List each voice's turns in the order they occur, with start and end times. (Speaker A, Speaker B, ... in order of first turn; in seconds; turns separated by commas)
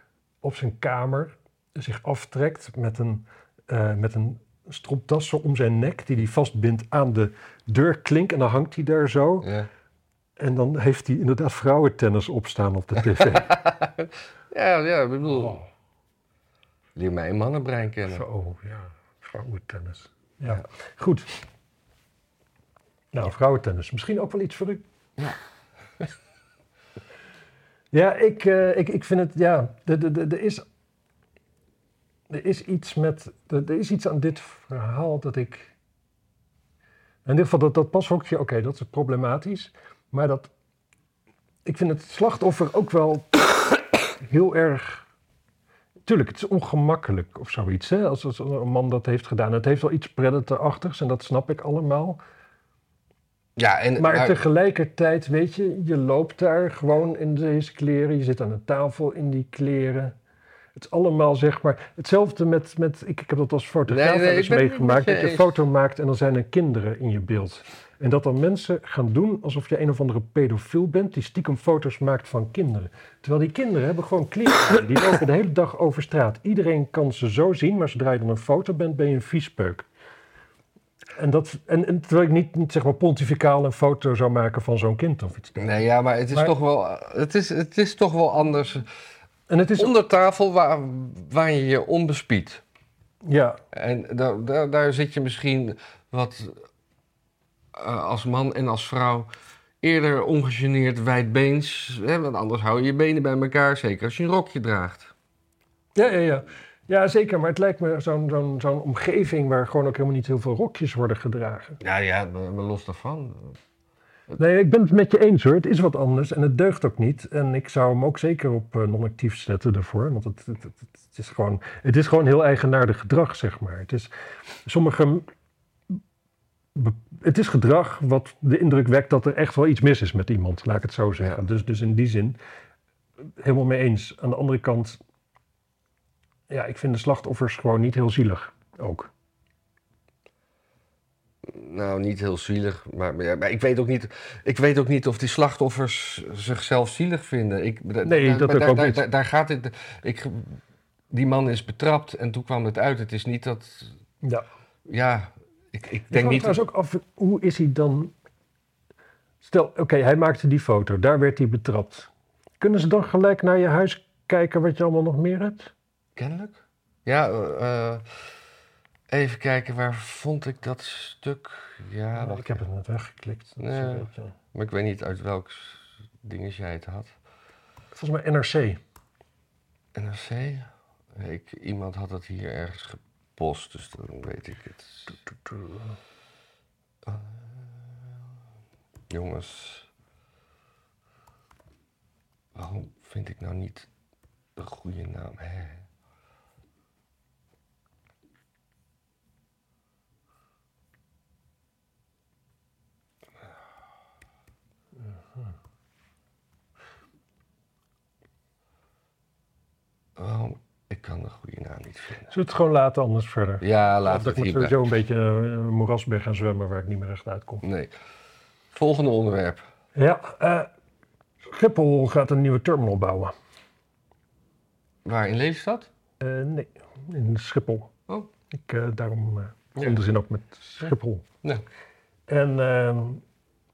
Speaker A: 0.4-9.5, Speaker B: 9.4-9.7, Speaker A: 10.4-13.6, Speaker B: 13.2-15.6, Speaker A: 15.3-15.6, Speaker B: 16.9-18.2, Speaker A: 18.1-21.4, Speaker A: 23.1-24.8, Speaker A: 27.9-30.6, Speaker A: 32.3-35.7, Speaker A: 37.2-40.5, Speaker A: 41.6-45.0, Speaker A: 46.0-52.2, Speaker B: 53.5-54.4, Speaker A: 54.0-60.1, Speaker A: 60.7-79.9, Speaker B: 63.9-65.6, Speaker A: 81.2-85.7, Speaker B: 85.6-88.9, Speaker A: 89.5-89.9, Speaker B: 89.8-92.6, Speaker A: 93.2-93.6, Speaker B: 93.7-96.6, Speaker B: 97.7-99.3, Speaker B: 99.8-105.1, Speaker A: 105.9-111.8, Speaker B: 111.8-113.6, Speaker A: 114.4-124.1, Speaker A: 124.6-125.2, Speaker A: 126.7-132.4, Speaker A: 133.4-135.0, Speaker A: 136.5-139.1, Speaker B: 141.4-150.6, Speaker A: 148.0-149.0, Speaker B: 151.1-153.9, Speaker B: 154.8-156.6, Speaker A: 156.1-158.1, Speaker A: 159.4-165.7, Speaker B: 166.2-168.3, Speaker B: 169.1-172.6, Speaker A: 172.2-174.3, Speaker B: 173.6-177.1, Speaker A: 177.9-178.8, Speaker B: 179.9-185.2, Speaker A: 185.4-185.9, Speaker B: 187.0-188.0, Speaker B: 189.1-189.9, Speaker B: 192.5-193.9, Speaker B: 194.6-195.8, Speaker B: 210.2-212.3, Speaker A: 212.3-217.6, Speaker B: 213.6-214.8, Speaker B: 217.6-217.9, Speaker B: 218.7-219.6, Speaker A: 219.9-220.7, Speaker A: 221.4-223.3, Speaker B: 225.0-225.9, Speaker A: 226.2-227.9, Speaker A: 228.5-231.2, Speaker A: 232.3-233.2